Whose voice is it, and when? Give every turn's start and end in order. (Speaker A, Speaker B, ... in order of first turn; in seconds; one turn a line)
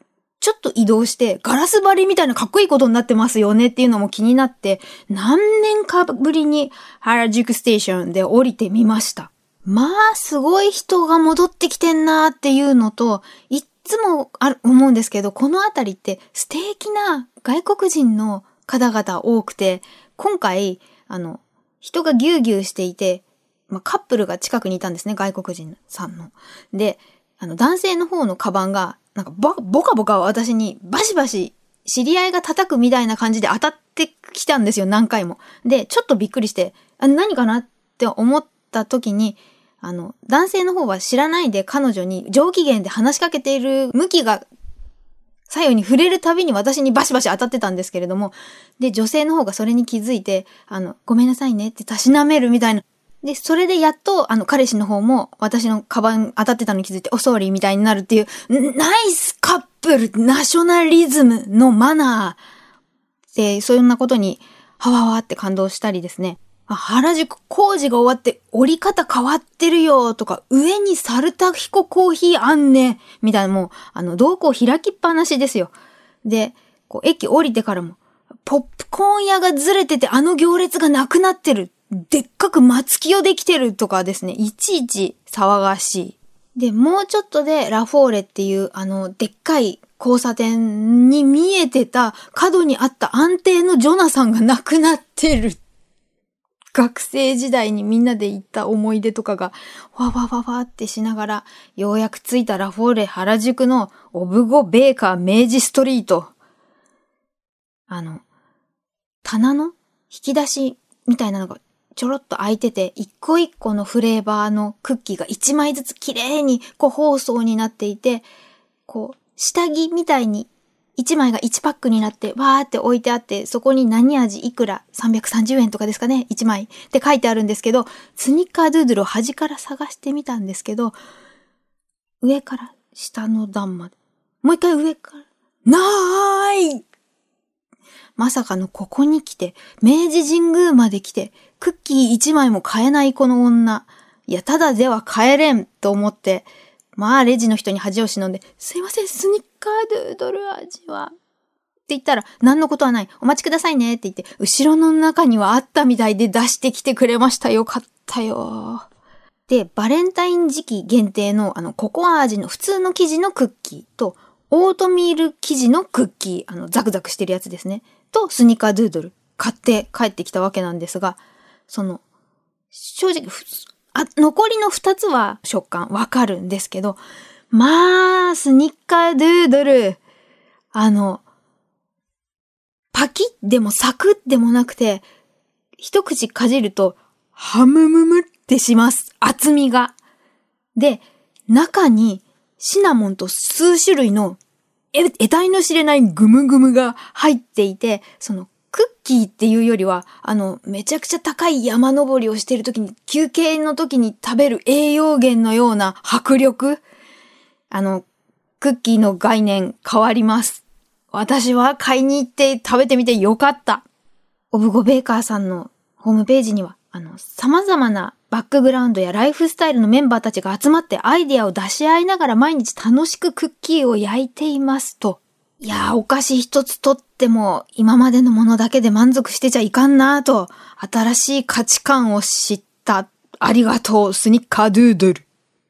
Speaker A: 0.4-44.5
Speaker A: 45.5-62.4
Speaker A: 63.3-95.6
Speaker A: 96.7-106.3
Speaker A: 107.9-108.2
Speaker A: 109.2-118.3
Speaker A: 118.9-131.0
Speaker A: 132.2-136.8
Speaker A: 138.2-151.1
Speaker A: 151.9-158.9
Speaker A: 159.5-172.0
Speaker A: 172.7-177.0
Speaker A: 177.5-180.0
Speaker A: 180.7-181.2
Speaker A: 182.9-185.1
Speaker A: 185.8-190.0
Speaker A: 190.8-194.4
Speaker A: 194.9-206.8
Speaker A: 207.7-208.1
Speaker A: 208.6-213.8
Speaker A: 214.5-235.2